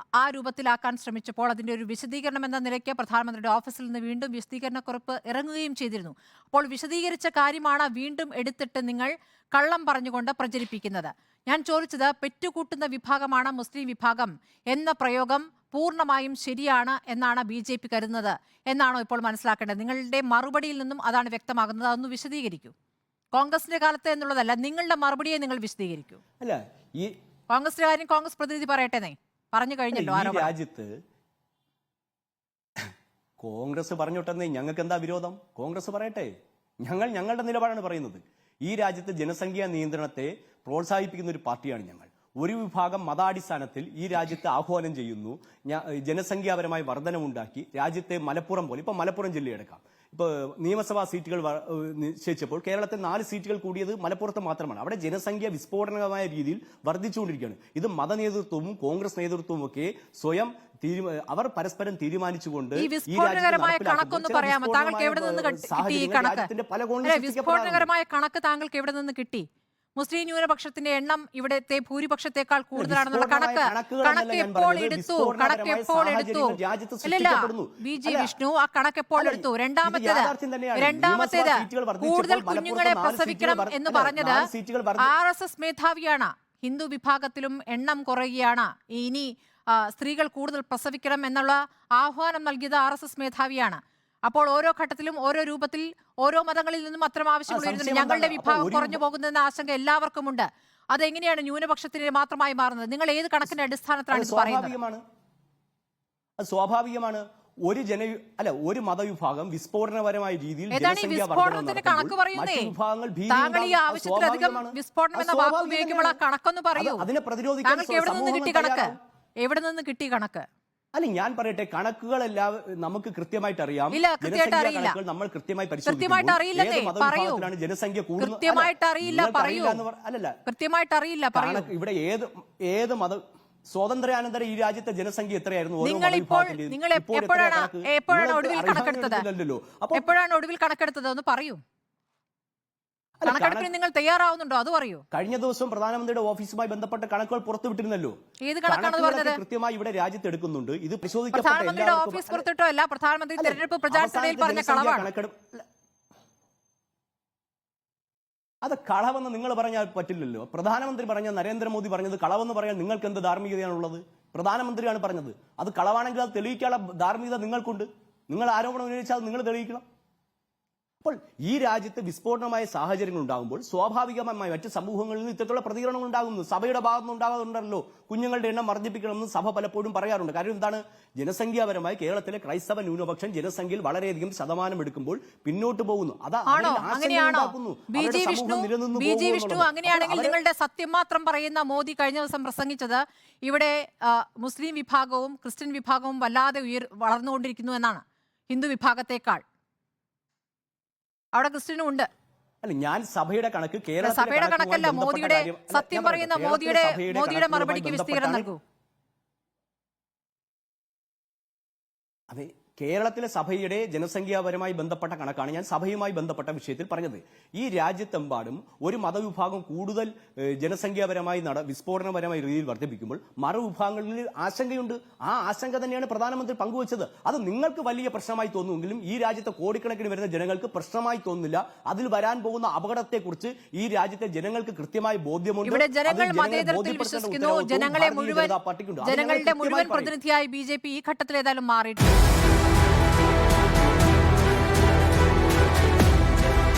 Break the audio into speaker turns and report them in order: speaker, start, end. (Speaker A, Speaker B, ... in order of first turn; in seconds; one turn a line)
Speaker A: 0.2-22.7
Speaker A: 23.3-26.2
Speaker B: 26.4-27.1
Speaker A: 27.5-30.5
Speaker B: 29.9-30.9
Speaker B: 33.4-36.3
Speaker B: 36.8-67.9
Speaker A: 62.8-66.5
Speaker A: 67.0-69.5
Speaker A: 70.0-84.5
Speaker B: 72.8-78.3
Speaker B: 79.2-85.1
Speaker A: 85.0-104.8
Speaker B: 97.5-99.0
Speaker B: 104.1-105.0
Speaker B: 106.4-116.2
Speaker A: 110.7-112.7
Speaker A: 113.3-117.1
Speaker B: 116.8-119.0
Speaker A: 117.7-120.5
Speaker B: 121.0-130.4
Speaker A: 123.9-125.0
Speaker A: 125.9-127.5
Speaker A: 128.2-129.8
Speaker A: 130.5-131.7
Speaker B: 131.3-140.1
Speaker A: 135.8-139.2
Speaker A: 139.9-141.6
Speaker B: 143.2-143.7
Speaker A: 143.2-145.0
Speaker B: 145.1-148.2
Speaker A: 148.4-149.4
Speaker B: 148.7-152.4
Speaker A: 151.3-155.1
Speaker B: 153.4-155.6
Speaker B: 158.6-169.8
Speaker B: 171.0-190.4
Speaker A: 186.5-199.4
Speaker A: 201.3-202.1
Speaker B: 202.6-208.5
Speaker A: 204.0-208.6
Speaker B: 212.3-240.1
Speaker A: 235.6-242.1